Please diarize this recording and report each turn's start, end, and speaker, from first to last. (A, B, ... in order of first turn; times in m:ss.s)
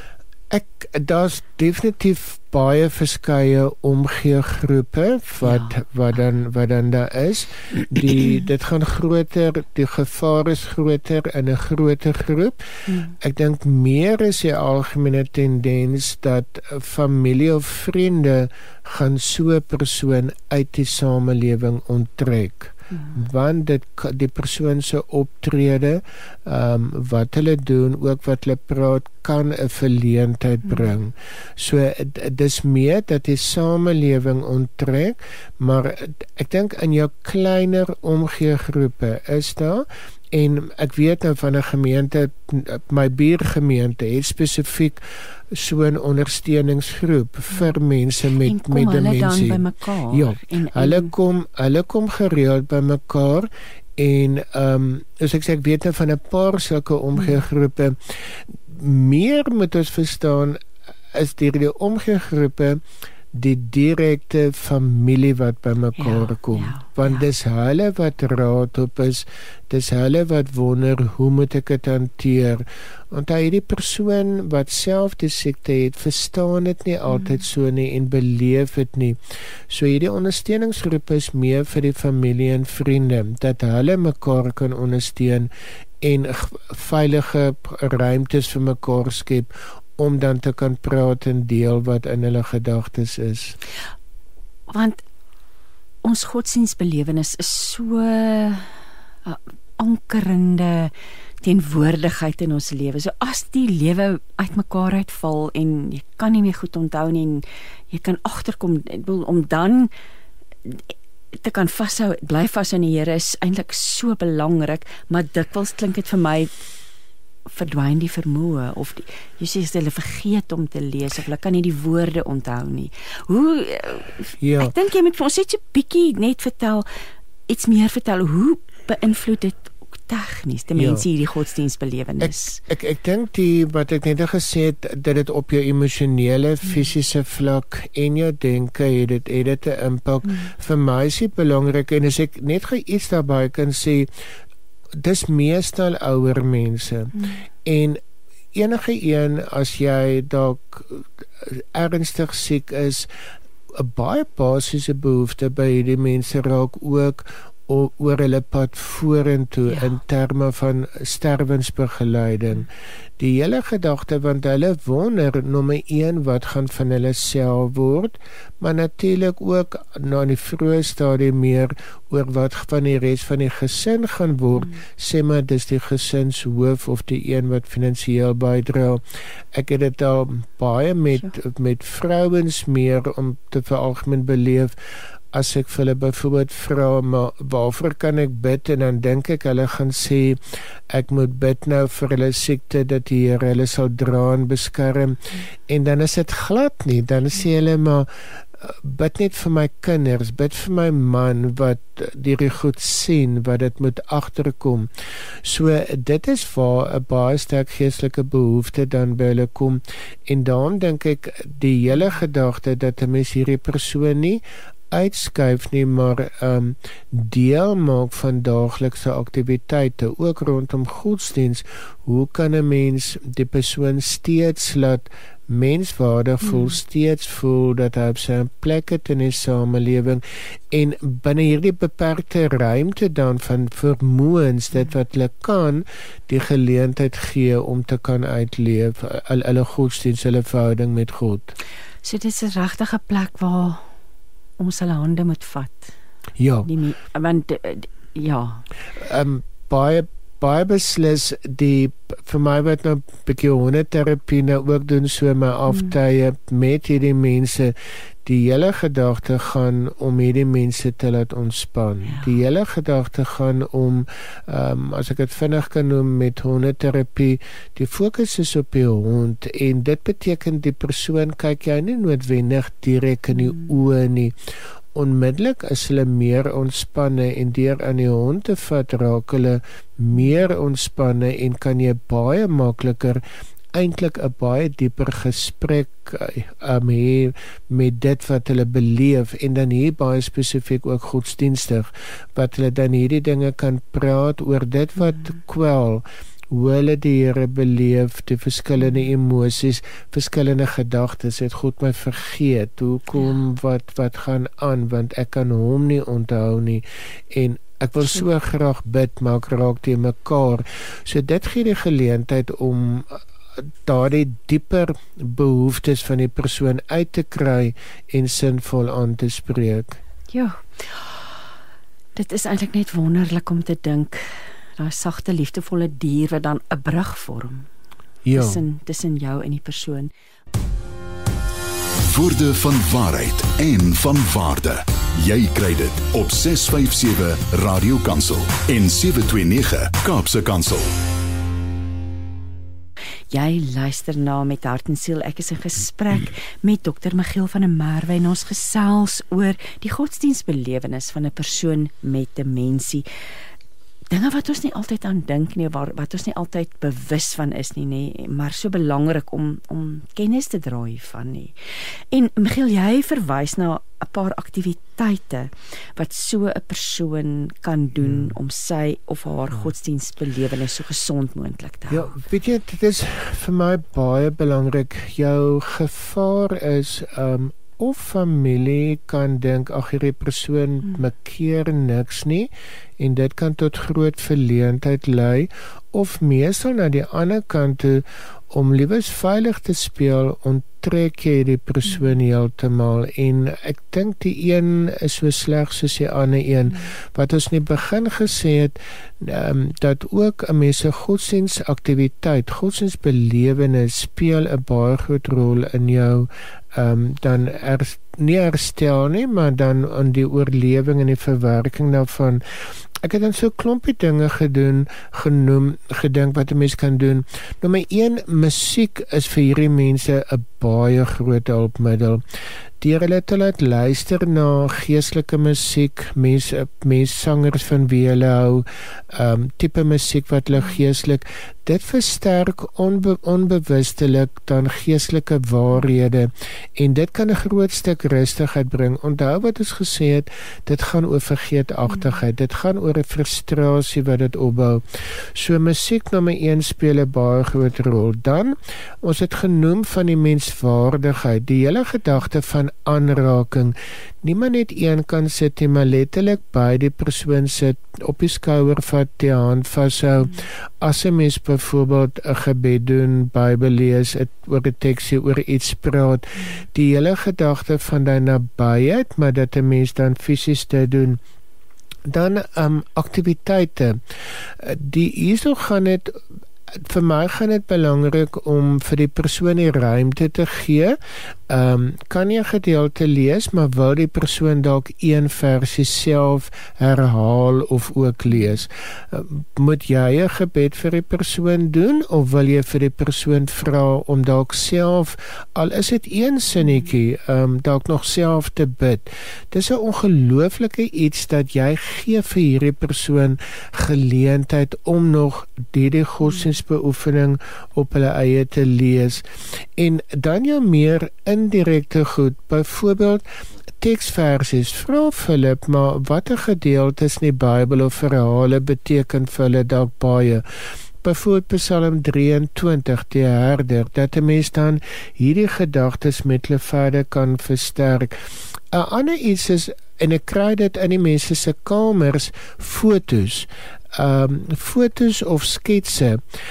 0:00.5-1:00.6 A
0:05.4-0:05.8 B
0:48.4-0:51.1 B
1:01.1-1:02.8 A
1:03.3-1:19.2 A
1:06.0-1:07.2 B
1:19.7-1:25.5 A
1:26.0-1:33.6 A
1:34.7-1:35.0 B
1:36.0-1:49.9 B
1:50.6-1:56.5 B
1:57.5-2:06.9 B
2:04.4-2:04.7 A
2:07.5-2:12.6 B
2:10.8-2:11.0 A
2:12.2-2:24.1 A
2:24.9-2:28.0 A
2:28.5-2:33.1 A
2:33.7-3:04.7 A
2:39.7-2:40.0 B
3:05.3-3:24.9 A
3:25.4-4:01.5 A
4:02.0-4:03.9 B
4:04.6-4:05.9 B
4:06.4-4:06.7 A
4:06.6-4:08.6 B
4:09.0-4:17.7 A
4:18.2-4:34.3 A
4:34.9-4:43.2 A
4:43.7-5:20.0 A
5:20.3-5:21.2 B
5:22.2-5:27.7 B
5:28.2-5:28.6 A
5:28.3-5:30.1 B
5:32.0-5:40.9 C
5:43.3-5:53.0 B
5:54.1-6:01.5 B
6:02.1-6:12.1 B
6:08.0-6:08.3 A
6:11.9-7:02.2 A
7:02.8-7:51.2 A
7:52.1-7:54.0 A
7:54.6-8:01.0 A
8:01.5-8:33.2 A
8:33.8-8:40.4 A
8:41.0-8:56.2 A